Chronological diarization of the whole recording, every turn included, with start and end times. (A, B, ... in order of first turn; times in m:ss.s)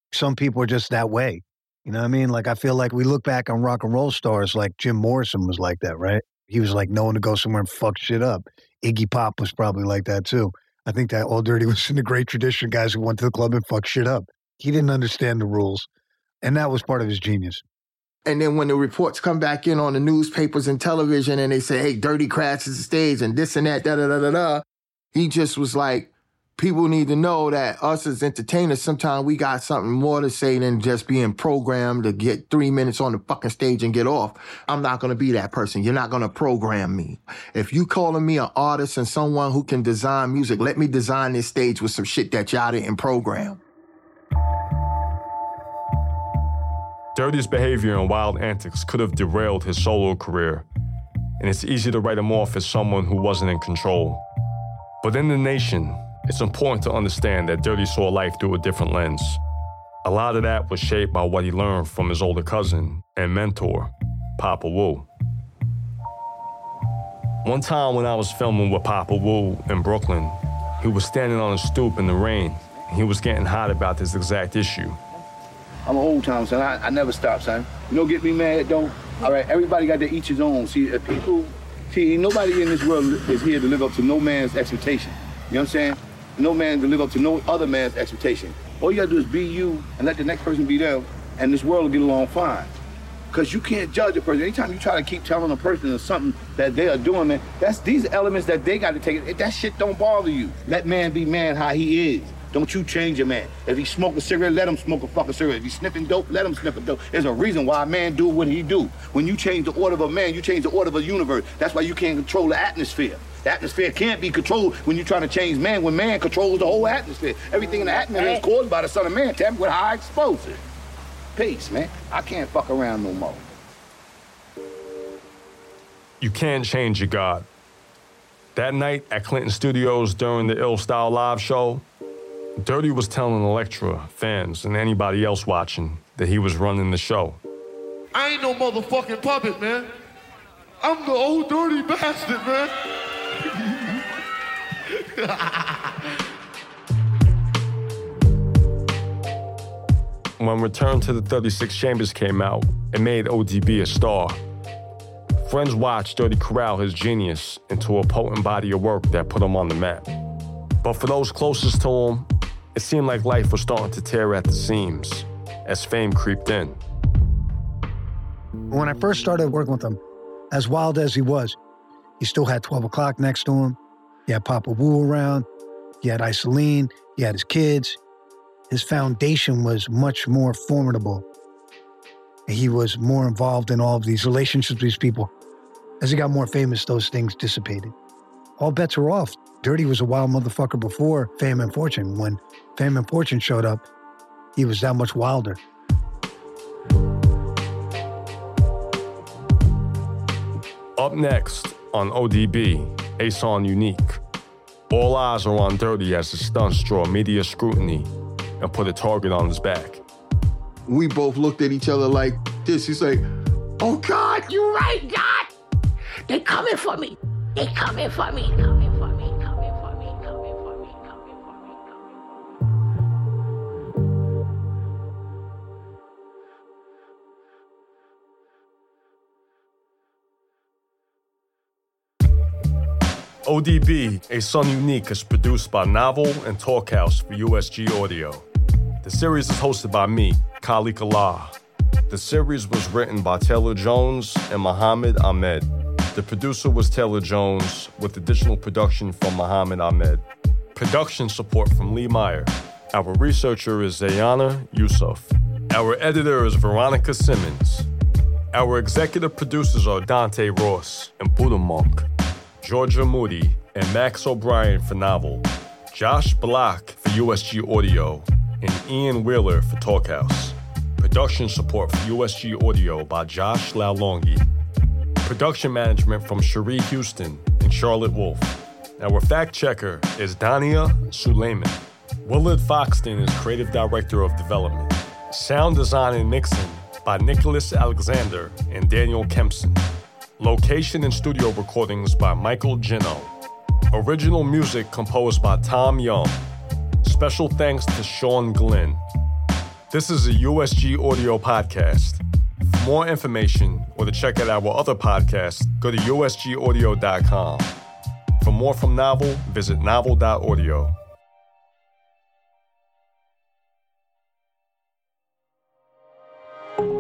0:00.1-0:15.9 A
0:16.4-0:17.6 A
0:18.3-0:43.6 B
0:47.2-0:50.6 C
0:51.4-0:54.2 C
0:55.0-0:59.4 C
1:00.0-1:05.1 C
1:07.4-1:15.0 C
1:15.9-1:32.7 D
1:33.3-2:00.6 D
2:01.4-2:03.5 D
2:06.2-2:07.5 C
2:08.6-2:11.8 C
2:12.6-2:17.4 C
2:18.1-2:19.9 E
2:20.8-2:22.7 E
2:25.2-2:25.8 E
2:30.4-2:34.4 C
2:35.4-2:40.1 C
2:40.8-2:46.8 C
2:48.7-2:50.0 A
2:50.5-2:51.6 A
2:52.2-2:55.5 A
2:56.0-2:58.0 A
2:58.7-3:01.2 A
3:02.5-3:05.3 A
3:06.0-3:07.9 A
3:08.6-3:13.8 A
3:14.6-3:15.6 A
3:21.0-3:24.2 C
3:24.9-3:30.0 C
3:30.9-3:33.3 B
3:33.8-3:34.5 B
3:34.4-3:35.5 F
3:36.3-3:42.0 F
3:53.5-3:58.5 C
3:59.0-4:01.6 C
4:02.1-4:10.2 C
4:10.8-4:17.9 C
4:18.5-4:22.1 C
4:22.6-4:34.5 C
4:35.2-4:49.8 C
4:50.4-4:53.3 C
4:53.9-4:56.4 C
4:57.0-4:59.0 C
4:59.9-5:07.7 C
5:08.4-5:11.0 C